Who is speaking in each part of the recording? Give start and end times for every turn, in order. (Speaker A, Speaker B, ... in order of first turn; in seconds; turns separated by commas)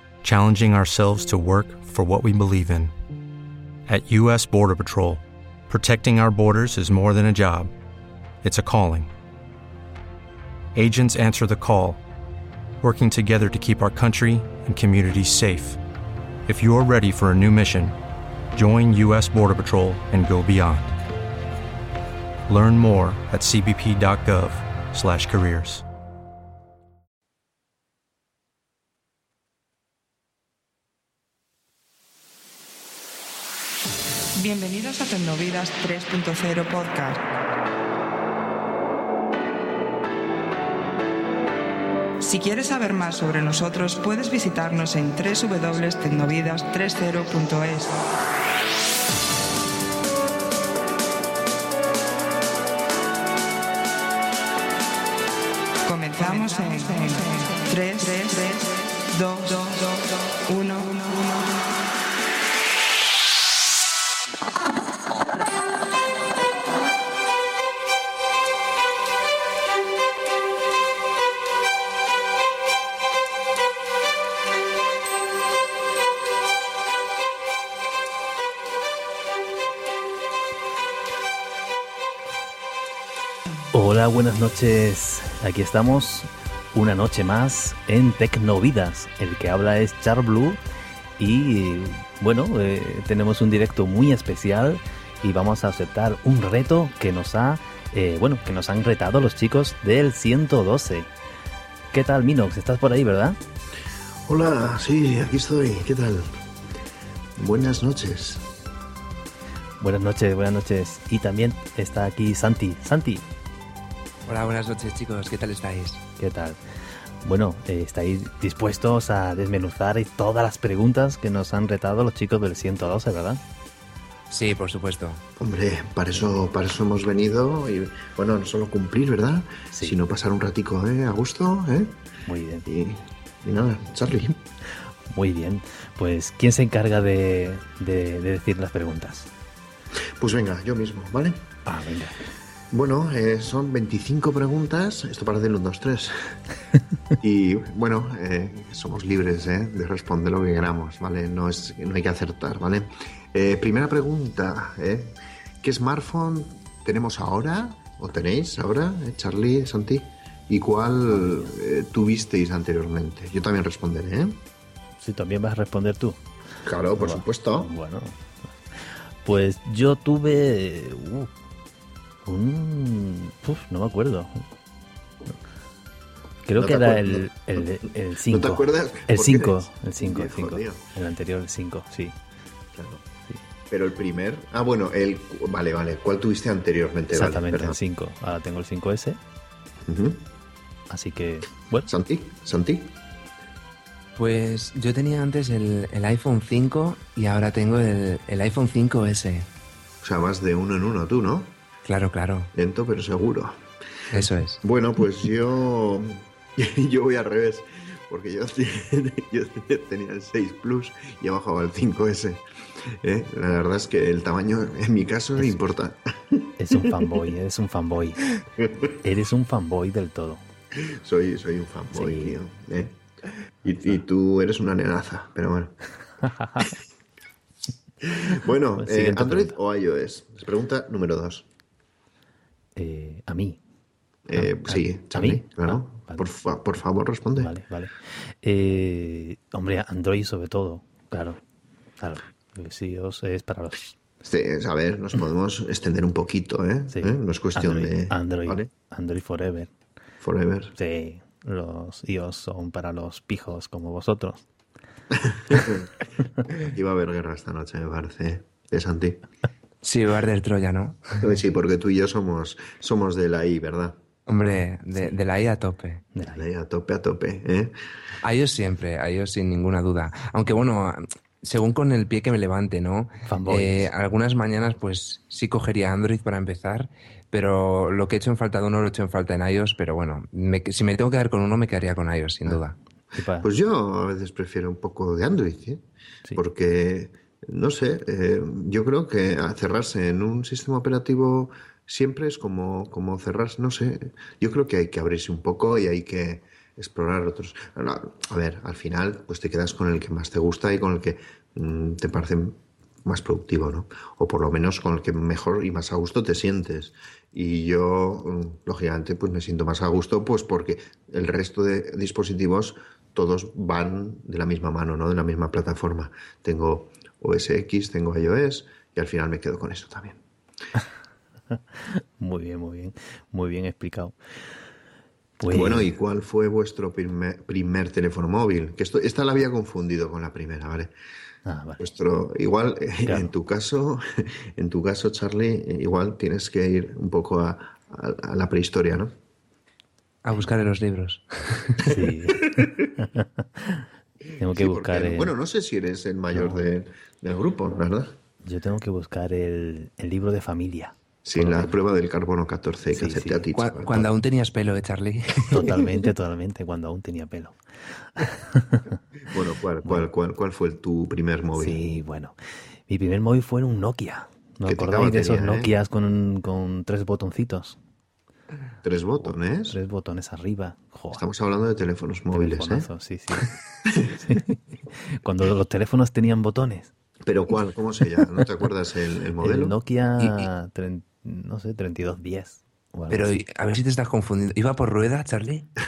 Speaker A: 0.2-2.9, Speaker A: 3.9-7.7, Speaker A: 8.4-9.1, Speaker A: 10.8-12.0, Speaker A: 12.8-15.8, Speaker A: 16.4-17.9, Speaker A: 18.5-20.9, Speaker A: 22.5-25.8, Speaker B: 34.4-37.2, Speaker B: 42.2-48.0, Speaker B: 55.8-61.5, Speaker C: 83.7-90.6, Speaker C: 91.2-101.1, Speaker C: 101.9-103.4, Speaker D: 104.3-106.4, Speaker D: 107.4-108.5, Speaker C: 109.8-113.2, Speaker E: 114.3-116.0, Speaker C: 116.2-116.6, Speaker C: 117.2-123.4, Speaker E: 124.3-125.2, Speaker D: 125.4-132.0, Speaker C: 129.7-130.0, Speaker C: 132.2-132.7, Speaker D: 132.7-134.4, Speaker C: 135.1-139.3, Speaker D: 140.2-141.5, Speaker C: 141.7-142.2, Speaker D: 142.7-146.2, Speaker D: 147.2-164.4, Speaker C: 165.0-166.2, Speaker D: 166.7-167.7, Speaker C: 167.0-168.2, Speaker C: 169.2-171.3, Speaker C: 172.2-174.5, Speaker C: 176.4-182.2, Speaker D: 176.6-177.3, Speaker D: 178.3-180.8, Speaker D: 182.7-183.0, Speaker D: 183.7-187.8, Speaker C: 187.1-189.2, Speaker D: 189.8-190.2, Speaker C: 190.9-191.9, Speaker D: 191.9-192.9, Speaker E: 194.2-199.5, Speaker D: 200.0-201.6, Speaker E: 201.9-202.5, Speaker D: 202.5-203.6, Speaker E: 204.1-204.6, Speaker D: 204.6-217.1, Speaker C: 216.6-218.2, Speaker D: 218.4-218.7, Speaker C: 219.0-220.4, Speaker D: 220.7-223.0, Speaker C: 221.9-222.3, Speaker D: 223.6-225.8, Speaker C: 226.2-226.7, Speaker D: 228.0-231.5, Speaker C: 228.8-229.6, Speaker C: 232.8-233.6, Speaker D: 234.2-237.5, Speaker C: 234.4-236.3, Speaker C: 237.4-241.4, Speaker C: 242.0-243.9, Speaker D: 244.2-248.7, Speaker C: 246.9-249.7, Speaker D: 250.2-250.7, Speaker C: 250.8-254.4, Speaker D: 255.1-255.9, Speaker D: 256.5-259.2, Speaker E: 259.8-261.3, Speaker D: 261.2-264.0, Speaker E: 264.3-266.0, Speaker C: 266.1-266.4, Speaker D: 266.3-267.8, Speaker E: 268.2-282.8, Speaker C: 273.2-273.9, Speaker C: 283.1-283.5, Speaker D: 283.4-285.8, Speaker D: 286.3-320.2, Speaker C: 321.5-324.1, Speaker C: 325.4-325.9, Speaker D: 325.5-330.9, Speaker C: 331.4-331.8, Speaker D: 331.8-339.1, Speaker E: 340.2-341.8, Speaker C: 341.8-345.3, Speaker D: 342.5-342.9, Speaker D: 344.5-348.1, Speaker C: 348.4-351.7, Speaker D: 351.2-354.1, Speaker C: 352.9-353.4, Speaker E: 353.5-355.7, Speaker C: 355.4-358.9, Speaker D: 359.3-361.8, Speaker C: 361.6-362.3, Speaker C: 362.9-367.8, Speaker D: 364.6-365.7, Speaker D: 368.8-369.8, Speaker C: 369.7-371.2, Speaker D: 371.1-372.9, Speaker C: 372.3-373.5, Speaker C: 374.2-376.9, Speaker D: 377.2-379.8, Speaker C: 379.4-383.3, Speaker E: 383.1-385.7